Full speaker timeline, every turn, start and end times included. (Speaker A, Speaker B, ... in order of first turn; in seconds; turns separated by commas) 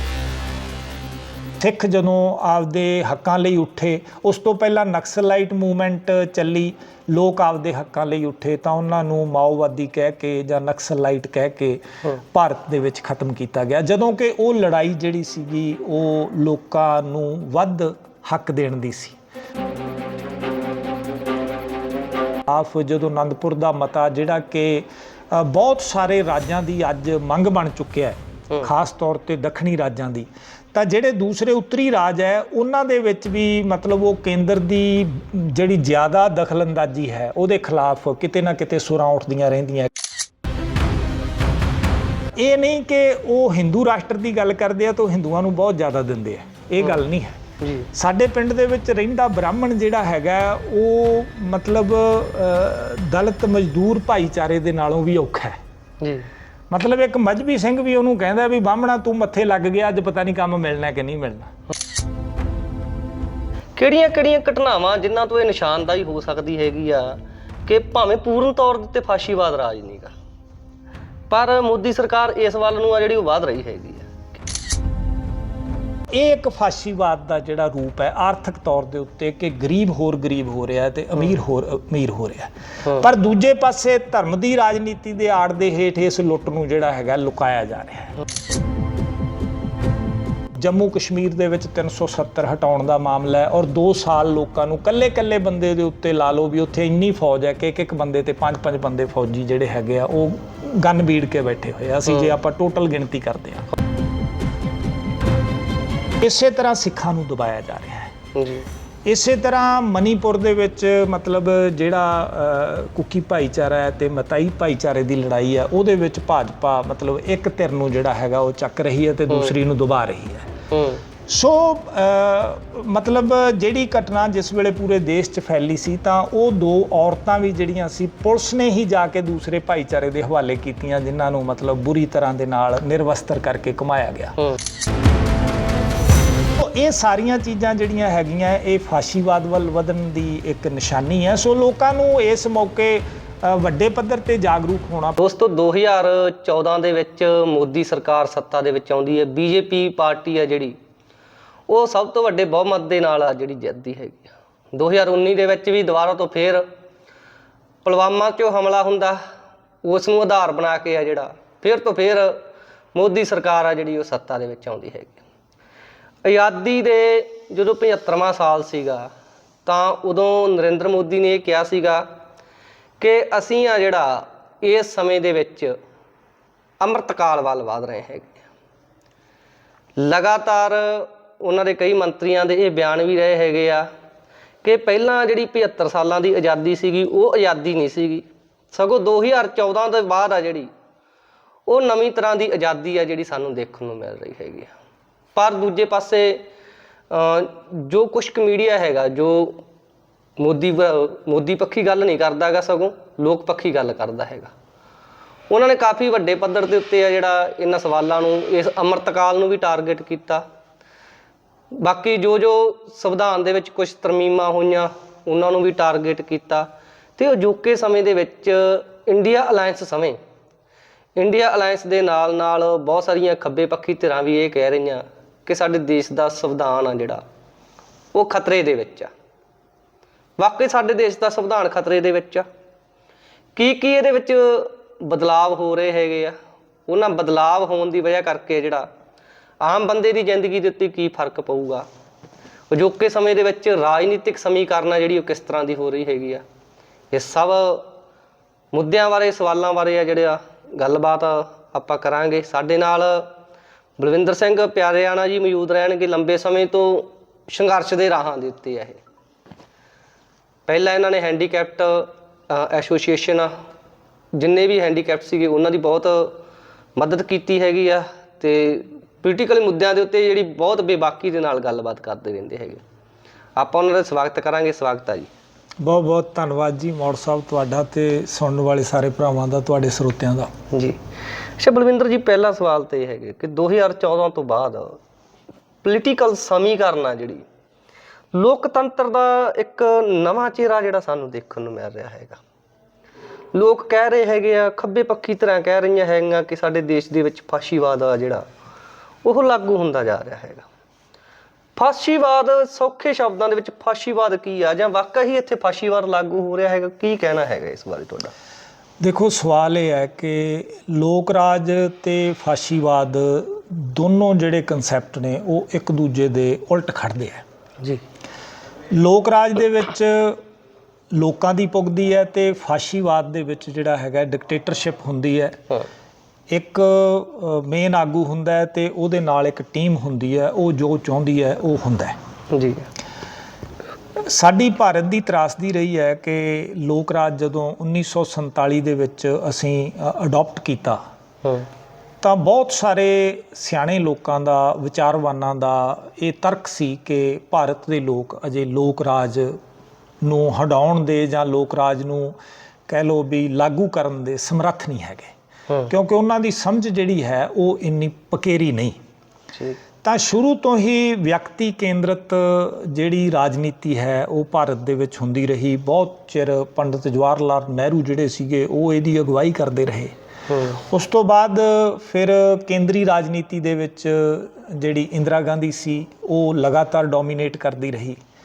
Speaker A: 1.6-19.2, Speaker A: 22.5-39.9, Speaker A: 42.4-47.4, Speaker B: 47.6-47.9, Speaker A: 47.9-55.6, Speaker B: 56.0-56.3, Speaker A: 56.7-61.5, Speaker B: 63.8-70.2, Speaker B: 71.3-74.5, Speaker A: 76.1-88.2, Speaker A: 90.6-103.7, Speaker A: 106.2-108.1, Speaker B: 108.3-108.7, Speaker A: 109.1-120.5, Speaker B: 120.7-121.0, Speaker A: 121.3-134.4, Speaker A: 136.6-145.2, Speaker B: 145.2-150.8, Speaker B: 151.7-156.7, Speaker B: 157.8-159.2, Speaker B: 159.8-165.2, Speaker B: 166.2-169.1, Speaker B: 169.7-172.1, Speaker B: 173.0-175.8, Speaker B: 176.8-178.4, Speaker B: 180.0-183.9, Speaker B: 184.6-190.7, Speaker B: 191.7-194.7, Speaker B: 195.3-196.5, Speaker B: 197.1-199.6, Speaker B: 200.4-204.5, Speaker B: 205.5-210.4, Speaker B: 211.7-220.2, Speaker B: 221.2-227.2, Speaker B: 228.1-229.1, Speaker B: 230.4-232.4, Speaker B: 233.6-236.4, Speaker B: 236.9-238.9, Speaker B: 239.6-241.9, Speaker B: 242.7-246.4, Speaker B: 247.1-247.9, Speaker B: 248.7-253.3, Speaker B: 254.0-259.0, Speaker B: 260.7-263.5, Speaker B: 264.3-266.4, Speaker B: 267.0-272.8, Speaker B: 273.6-275.3, Speaker A: 275.8-280.5, Speaker B: 280.7-281.0, Speaker B: 281.6-285.0, Speaker B: 285.8-287.4, Speaker B: 288.3-292.4, Speaker B: 293.5-298.5, Speaker B: 299.2-300.7, Speaker B: 301.8-308.3, Speaker A: 309.0-317.4, Speaker A: 318.9-320.4, Speaker A: 321.1-325.6, Speaker A: 326.5-332.2, Speaker B: 332.5-332.9, Speaker A: 334.2-341.0, Speaker A: 342.2-349.6, Speaker A: 350.2-352.4, Speaker A: 352.9-355.3, Speaker A: 355.9-359.0, Speaker B: 359.5-359.8, Speaker A: 360.0-370.1, Speaker B: 370.5-370.8, Speaker A: 370.8-378.2